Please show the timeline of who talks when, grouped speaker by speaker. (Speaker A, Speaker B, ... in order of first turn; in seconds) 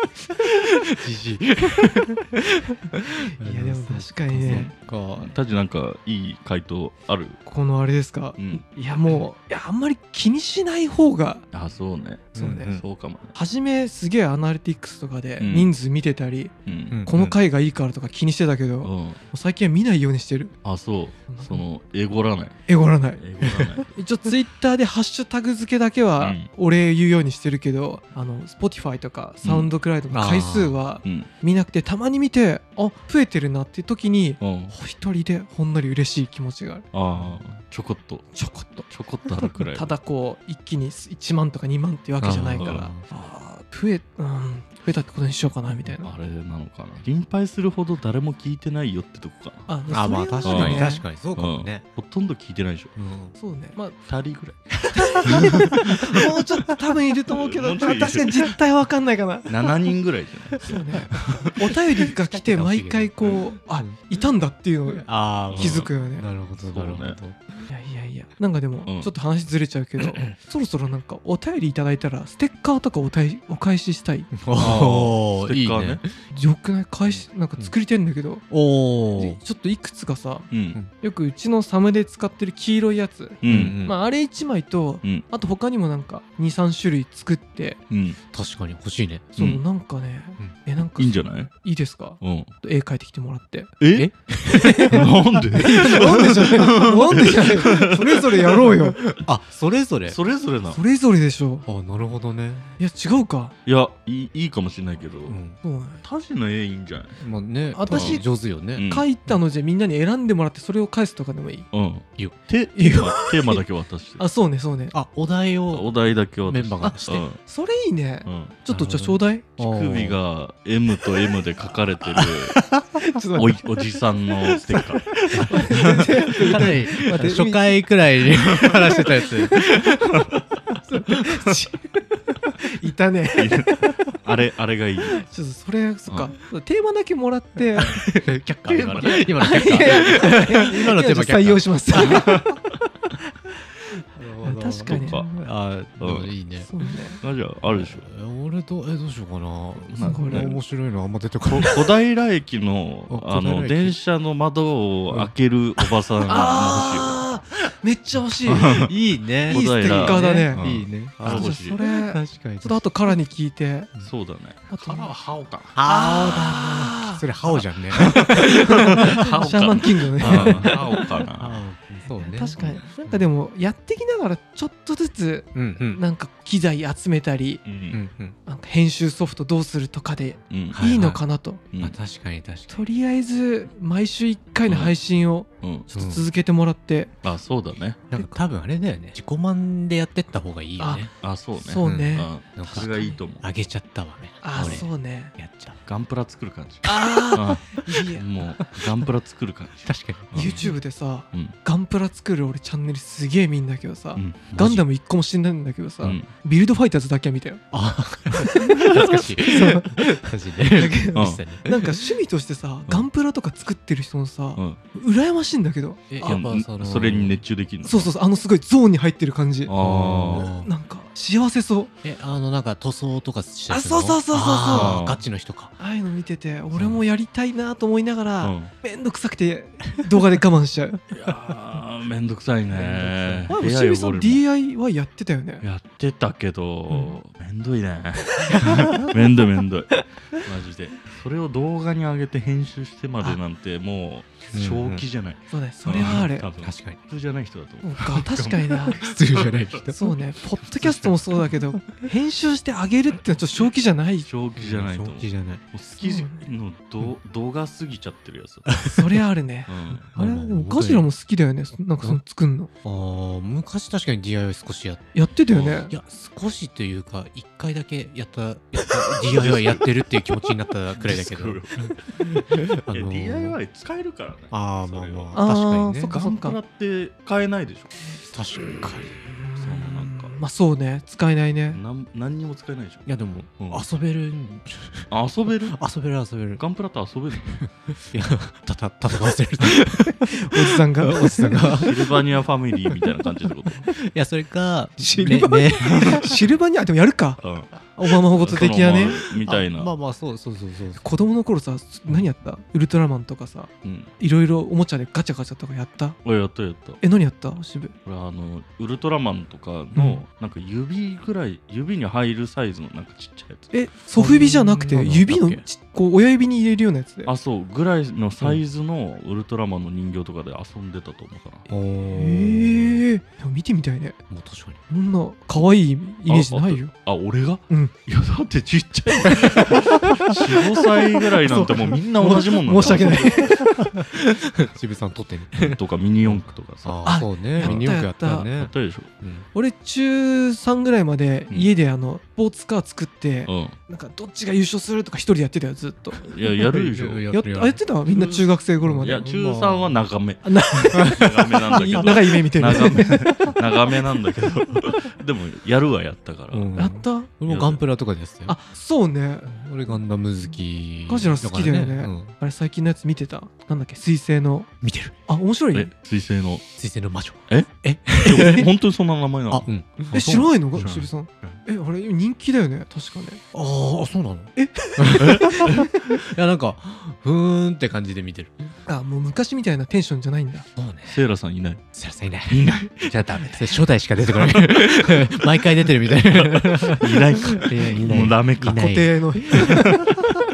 Speaker A: 0.5-5.3, 12.3-12.8, 30.1-30.8, 42.2-43.0, 49.9-51.9, 53.0-53.3, 54.9-55.8, 62.0-64.0, 65.0-67.4, 74.3-76.1, 77.1-77.7, 78.5-79.4, 83.4-83.9, 88.3-89.3, 93.9-95.1, 99.2-100.2, 101.7-102.7, 105.3-105.6, 107.2-108.9, 114.9-117.2, 118.7-120.2, 122.1-122.8, 125.3-130.1, 138.2-142.3, 144.2-146.7, 147.6-151.9, 153.1-154.0, 155.1-155.9, 158.4-162.8, 164.8-169.1, 170.2-173.3, 175.5-176.0, 177.9-178.3, 180.7-181.2, 181.8-182.8, 185.9-186.2, 188.1-191.1, 191.8-195.8, 199.8-200.7, 207.7-211.9, 216.1-217.4, 219.8-220.7, 222.0-225.7, 226.7-227.0, 232.7-233.5, 244.5-245.0, 246.0-247.0, 248.1-250.2, 254.6-255.6, 258.7-259.0, 260.1-261.1, 262.8-265.0, 265.9-271.6, 272.2-273.6, 274.5-276.1, 278.3-279.2, 283.1-285.1, 285.6-286.6, 287.6-292.0, 293.9-296.4, 299.4-301.0, 314.1-315.6, 321.7-322.9, 324.3-324.8, 332.8-339.4, 346.6-347.8, 348.8-349.8, 356.5-358.6, 359.4-362.3, 364.8-365.1, 366.8-368.7, 369.5-371.6, 373.5-378.7, 380.8-381.2, 381.9-389.8
Speaker B: 3.2-4.7, 7.4-11.4, 12.3-12.8, 13.3-16.5, 17.0-20.5, 21.3-21.6, 22.7-36.9, 38.3-46.1, 49.7-51.0, 53.4-54.0, 54.9-59.9, 60.6-66.3, 67.7-74.3, 76.3-78.5, 79.1-87.8, 89.3-93.7, 94.5-99.1, 100.7-101.7, 102.8-103.5, 105.6-106.0, 107.7-111.7, 112.8-113.6, 114.2-114.9, 116.8-119.6, 123.0-123.8, 124.7-127.7, 130.8-133.9, 135.2-138.3, 139.1-142.6, 144.4-145.2, 146.6-147.2, 150.0-150.6, 156.2-158.9, 159.4-163.9, 164.7-165.1, 165.8-167.2, 168.0-171.0, 172.2-177.6, 178.5-181.6, 182.7-187.1, 190.8-193.1, 194.4-195.3, 196.8-198.2, 200.3-207.7, 208.4-210.0, 210.7-216.4, 217.8-219.7, 220.3-221.9, 223.7-225.0, 225.8-231.0, 233.5-235.6, 236.9-237.2, 245.5-246.5, 247.8-249.1, 249.9-254.3, 256.0-256.5, 258.9-262.7, 265.1-265.9, 275.3-276.6, 279.4-281.8, 290.3-291.7, 295.0-299.2, 301.0-306.2, 307.0-307.9, 309.9-310.2, 313.7-317.3, 322.1-324.2, 324.9-326.9, 327.7-327.9, 331.4-333.7, 337.0-338.5, 339.5-346.2, 347.3-349.8, 350.4-353.6, 356.8-357.3, 358.4-360.0, 361.1-364.7, 365.3-365.9, 370.1-373.4, 374.6-375.9, 378.9-380.7, 383.3-383.7, 388.8-390.0
Speaker C: 4.5-7.4, 8.4-8.6, 11.5-13.3, 15.4-15.7, 16.6-17.3, 18.8-19.2, 20.6-22.6, 23.1-24.0, 26.2-26.5, 29.4-29.7, 31.0-31.3, 34.4-34.7, 36.9-38.3, 38.9-39.9, 42.5-42.9, 46.0-49.7, 50.4-52.9, 54.0-54.7, 55.2-56.0, 57.2-58.5, 59.5-61.8, 65.5-65.9, 66.7-67.2, 74.6-76.0, 80.5-80.8, 83.4-83.8, 87.9-88.2, 89.4-89.6, 90.9-91.5, 92.2-92.5, 93.8-94.1, 94.9-98.8, 100.1-100.8, 103.6-105.4, 106.0-107.1, 107.9-109.0, 111.7-114.2, 115.7-117.4, 118.2-118.5, 119.6-122.6, 123.3-126.6, 133.4-135.2, 138.7-140.1, 142.0-142.6, 144.8-145.2, 146.0-146.3, 147.2-148.1, 149.8-150.6, 151.4-157.2, 158.4-161.8, 164.0-165.7, 168.0-171.6, 177.6-178.0, 180.5-180.8, 184.7-184.9, 185.6-185.9, 187.2-188.0, 191.2-193.4, 194.6-194.8, 195.9-200.7, 204.1-204.8, 206.0-206.3, 211.1-211.4, 216.2-218.1, 219.7-220.5, 224.7-225.2, 228.4-228.7, 231.1-234.4, 235.6-249.8, 250.8-251.1, 254.2-258.7, 259.7-260.1, 265.5-265.8, 269.1-269.9, 271.0-272.0, 272.9-275.4, 276.1-278.0, 279.5-280.3, 281.7-283.8, 285.1-285.8, 286.6-287.6, 291.8-293.9, 297.4-299.9, 303.8-304.1, 306.2-307.0, 308.0-313.7, 317.2-321.6, 326.3-333.6, 335.6-337.9, 338.6-339.1, 343.5-343.8, 346.2-347.2, 348.1-348.5, 349.0-356.8, 357.4-357.9, 365.7-366.6, 367.5-371.1, 381.1-381.8, 382.5-383.1, 384.3-385.2, 387.0-388.9, 389.5-390.3